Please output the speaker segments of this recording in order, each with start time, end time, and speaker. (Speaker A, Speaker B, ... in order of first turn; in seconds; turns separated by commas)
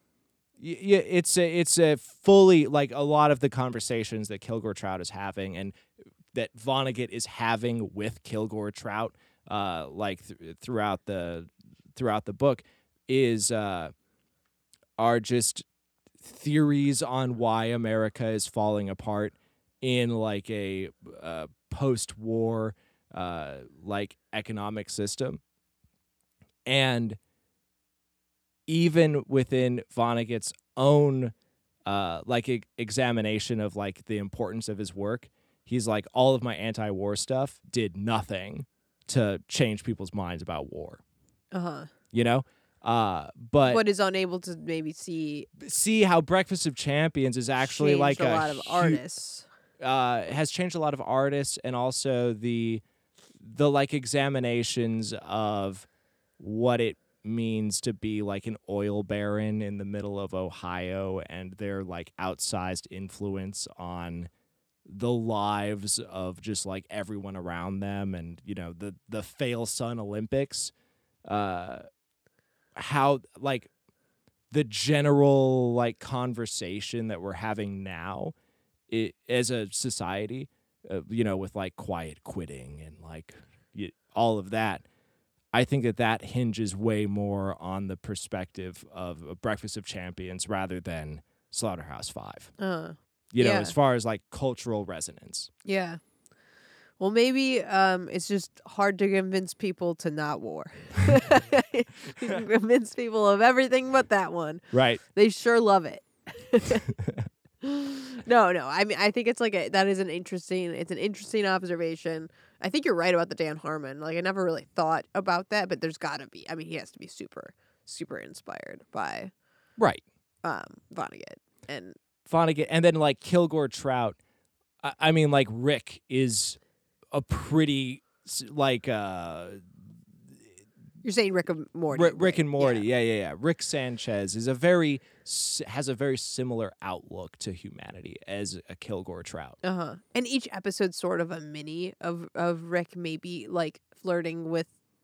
Speaker A: 0.6-5.8, Speaker A: 6.3-13.9, Speaker A: 15.0-15.7, Speaker A: 16.2-25.4, Speaker A: 26.7-27.2, Speaker A: 28.7-31.3, Speaker A: 31.9-41.0, Speaker B: 41.5-41.9, Speaker A: 42.1-43.8, Speaker B: 43.6-45.5, Speaker A: 45.6-49.0, Speaker B: 47.6-49.5, Speaker A: 49.8-52.8, Speaker A: 53.4-55.9, Speaker A: 56.4-64.3, Speaker A: 64.8-70.7, Speaker A: 71.3-71.8, Speaker A: 72.7-73.7, Speaker A: 74.5-78.3, Speaker A: 78.9-84.8, Speaker A: 85.5-92.5, Speaker B: 92.6-93.7, Speaker A: 93.3-95.5, Speaker B: 95.6-96.0, Speaker B: 97.0-106.9, Speaker A: 104.7-105.0, Speaker B: 107.6-119.3, Speaker A: 119.8-120.0, Speaker B: 120.4-122.0, Speaker A: 122.2-124.2, Speaker A: 124.8-126.6, Speaker A: 127.1-129.6, Speaker B: 131.0-132.8, Speaker A: 131.9-139.6, Speaker B: 139.6-144.7